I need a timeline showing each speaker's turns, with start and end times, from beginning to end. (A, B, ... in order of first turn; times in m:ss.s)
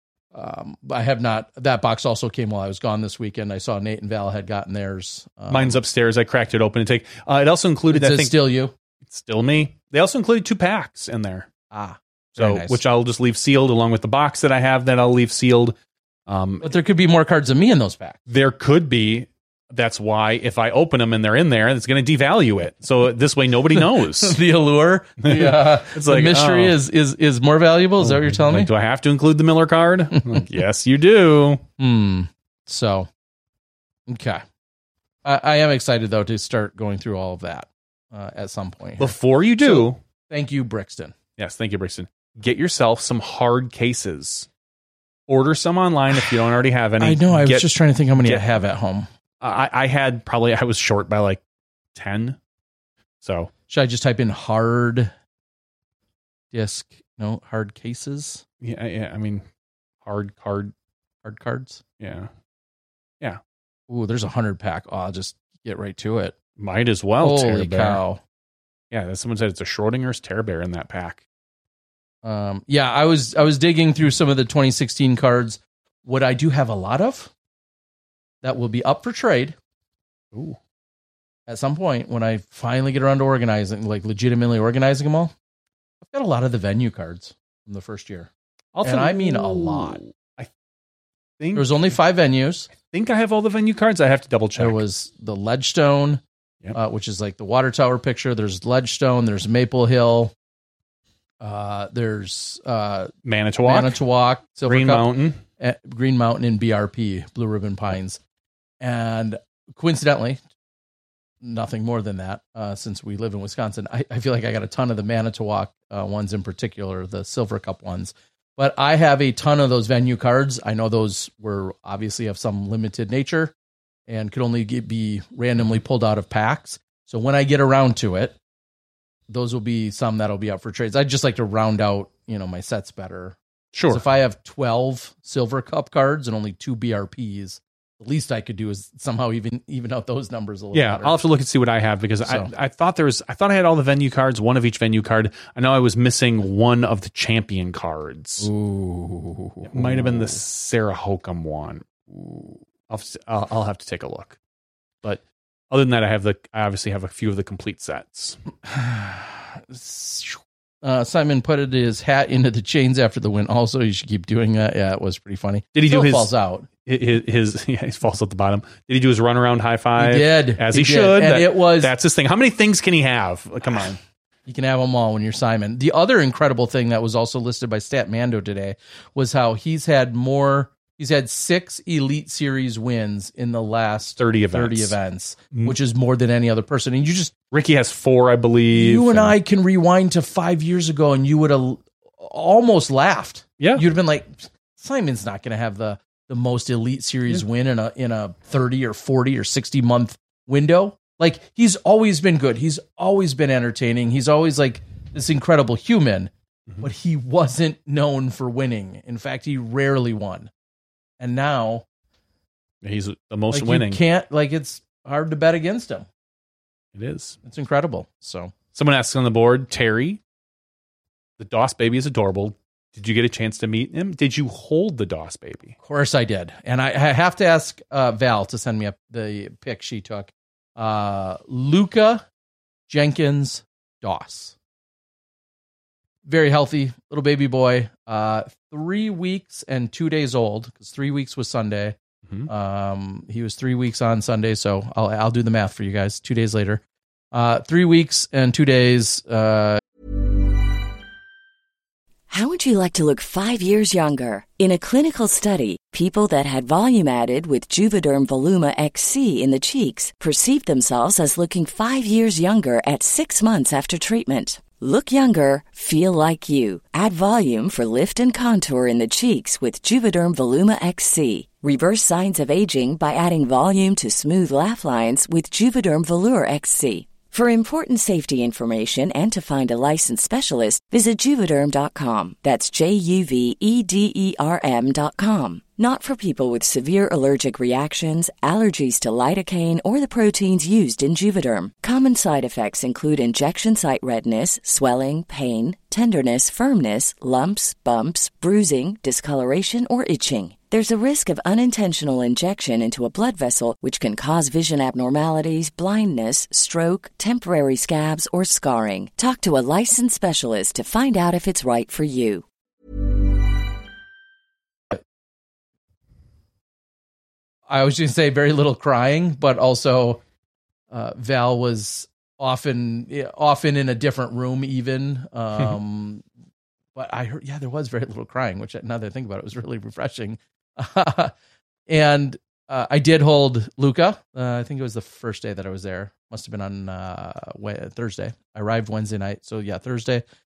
0:00.3-0:05.8 A
0:05.5-0:08.4 B
0:07.9-0:08.7 A
0:09.0-0:11.5 B
0:11.7-0:12.8 A
0:12.3-0:15.7 B
0:16.3-0:16.7 B
0:16.6-0:18.2 A
0:18.3-0:24.4 B
0:23.7-0:28.7 A
0:25.2-0:26.8 B
0:28.0-0:31.6 B
0:31.8-0:33.1 A
0:34.1-0:34.4 A
0:35.2-0:41.1 A
0:39.0-0:40.0 B
0:41.4-0:44.5 B
0:45.3-0:47.7 B
0:47.0-0:49.1 A
0:49.4-0:51.4 B
0:51.9-0:52.4 B
0:53.2-0:53.5 B
0:53.7-0:55.1 A
0:56.5-0:58.4 A
0:58.6-0:59.4 B
1:00.0-1:00.7 B
1:01.2-1:01.8 A
1:02.0-1:02.3 B
1:03.9-1:06.3 A
1:06.6-1:08.0 B
1:07.2-1:08.2 A
1:08.9-1:11.2 B
1:12.2-1:17.3 A
1:18.4-1:19.6 A
1:20.3-1:20.6 B
1:21.5-1:25.3 A
1:26.0-1:28.3 A
1:28.7-1:30.5 B
1:28.8-1:30.0 A
1:31.4-1:31.7 B
1:31.5-1:32.7 A
1:32.8-1:34.8 B
1:34.6-1:36.2 A
1:36.7-1:40.3 A
1:41.4-1:43.1 A
1:43.2-1:44.0 B
1:43.6-1:48.2 A
1:44.6-1:45.4 B
1:48.8-1:50.4 A
1:51.4-2:03.5 A
2:04.1-2:08.4 A
2:09.3-2:13.4 A
2:13.7-2:14.0 B
2:13.9-2:21.2 A
2:20.7-2:28.5 B
2:22.2-2:22.5 A
2:28.4-2:30.4 A
2:29.7-2:34.4 B
2:35.0-2:38.4 B
2:38.6-2:46.7 A
2:45.7-2:46.3 B
2:46.8-2:54.0 B
2:50.0-2:51.9 A
2:54.4-3:07.3 A
3:04.2-3:05.0 B
3:07.5-3:09.3 B
3:08.7-3:30.5 A
3:31.2-3:31.8 A
3:32.8-3:34.0 B
3:33.5-3:36.1 A
3:36.9-3:37.4 B
3:37.4-3:38.5 A
3:38.7-3:40.2 B
3:41.4-3:45.8 B
3:45.8-3:52.2 A
3:52.9-3:54.5 A
3:56.2-4:06.8 A
4:07.3-4:09.8 A
4:12.3-5:12.4 C
5:17.7-5:20.2 A
5:20.9-5:26.2 A
5:26.9-5:31.3 A
5:31.9-5:40.2 A